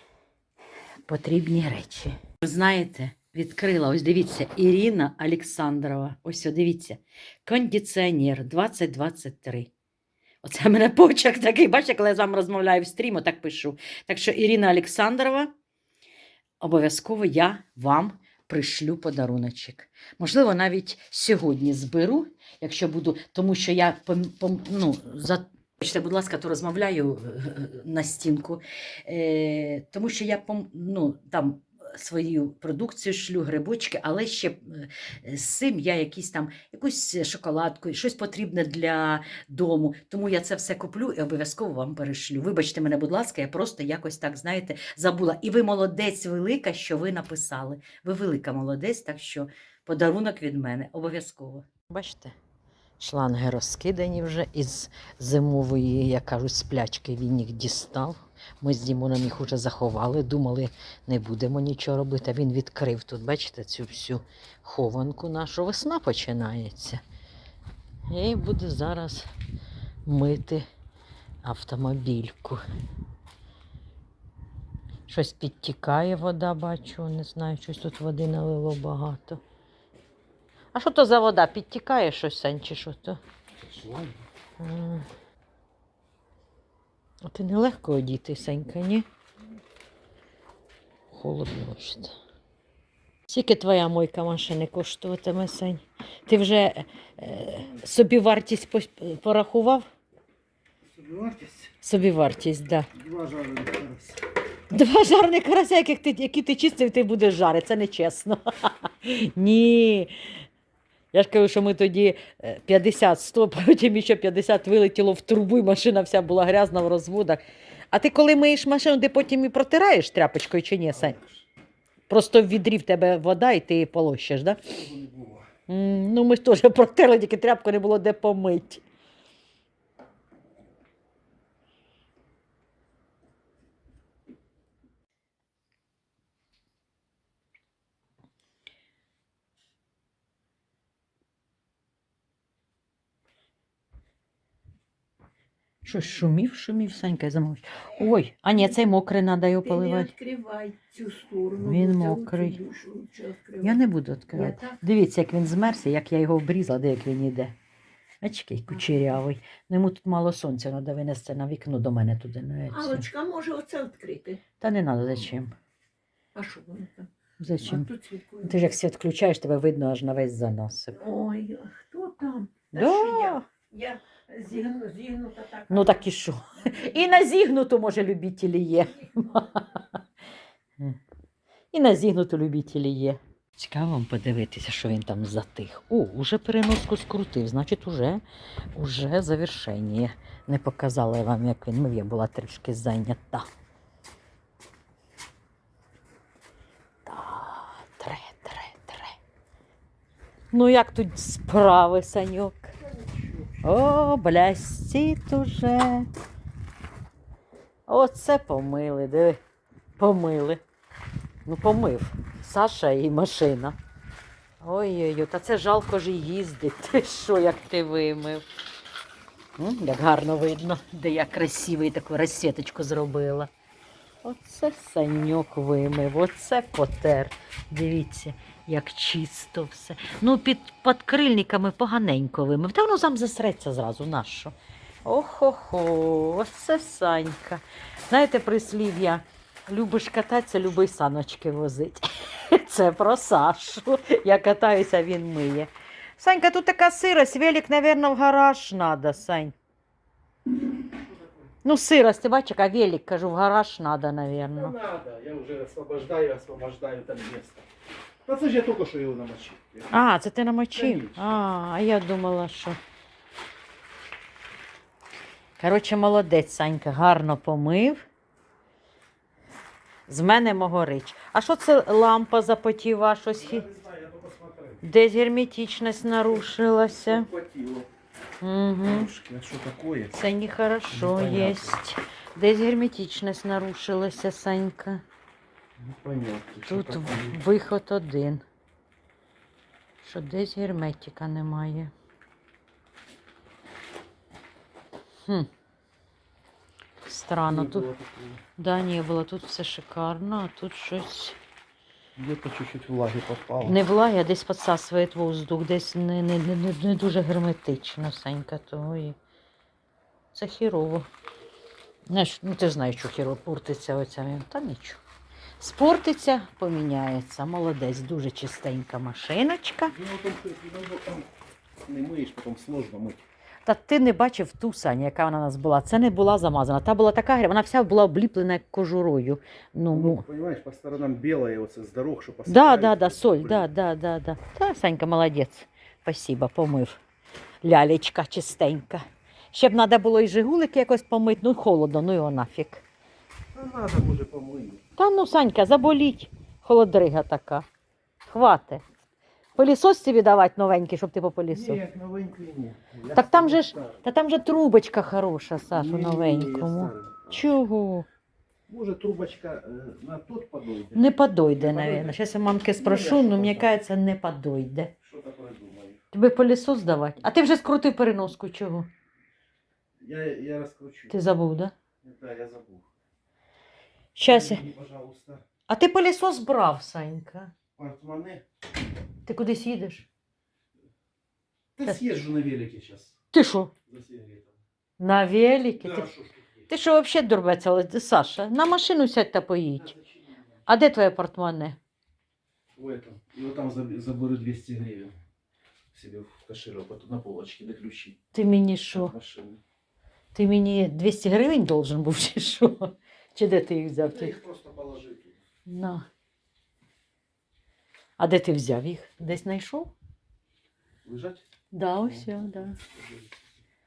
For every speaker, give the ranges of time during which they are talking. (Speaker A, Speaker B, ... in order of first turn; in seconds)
Speaker A: 1.1-9.7, 10.4-15.5, 16.6-52.3, 53.0-67.0, 68.1-69.3, 70.1-70.7, 71.4-72.6, 75.1-79.4, 80.7-83.2, 84.6-85.1, 87.2-89.1, 91.1-92.2, 93.3-99.9, 101.8-102.9, 104.7-110.2, 111.1-117.4, 117.9-121.2, 122.1-124.6, 125.7-128.8, 145.8-150.1, 151.6-152.6, 153.6-157.5, 158.2-163.1, 164.6-165.5, 167.4-167.9, 168.4-171.1, 172.7-173.5, 175.7-180.0, 181.7-188.2, 188.8-193.5, 197.1-199.2, 200.5-202.7, 203.6-206.1, 207.9-209.4, 210.0-210.6, 211.5-213.8, 214.6-218.4, 219.6-223.5, 224.2-234.5, 235.1-249.5, 251.6-254.8, 259.9-262.8, 265.6-268.0, 270.1-273.7, 274.8-277.3, 278.4-279.1, 280.1-285.0, 286.7-288.4, 290.0-291.9, 297.0-297.9, 298.6-301.4, 303.6-309.2, 310.3-311.1, 312.1-315.0, 315.6-320.0, 323.6-330.2, 332.5-337.0, 337.6-342.9, 345.0-347.6, 348.3-348.9, 349.6-351.8, 353.1-358.1, 360.9-364.9, 366.1-368.9, 371.1-371.7, 374.2-374.6, 375.7-377.5, 379.3-380.1, 383.3-383.7, 385.0-386.1, 386.7-389.9, 390.7-391.8, 398.3-399.1, 400.3-404.4, 405.7-406.0, 408.2-409.9, 411.7-412.8
Speaker B: 83.6-84.2, 100.8-101.7, 102.9-104.2, 120.9-121.5, 124.7-125.5, 202.8-203.7, 254.6-257.7, 258.3-259.9, 260.8-261.3, 273.3-274.8, 277.0-277.9, 278.9-280.2, 280.9-281.8, 285.8-287.4, 297.5-298.4, 302.2-303.8, 319.9-321.3, 321.9-323.2, 329.9-333.7, 343.5-344.8, 351.5-354.0, 355.7-357.5, 358.7-362.2, 362.8-363.7, 365.0-366.0, 370.0-371.1, 372.0-372.9, 374.2-375.4, 377.8-378.4, 381.8-383.2, 383.9-384.5, 385.8-386.6, 389.8-390.3, 392.8-395.1, 395.9-398.2, 398.9-399.6, 404.0-405.4, 411.0-411.4, 412.0-413.3
Speaker C: 149.6-153.8, 154.3-154.8, 162.7-164.4, 166.3-167.1, 167.6-168.5, 170.9-176.0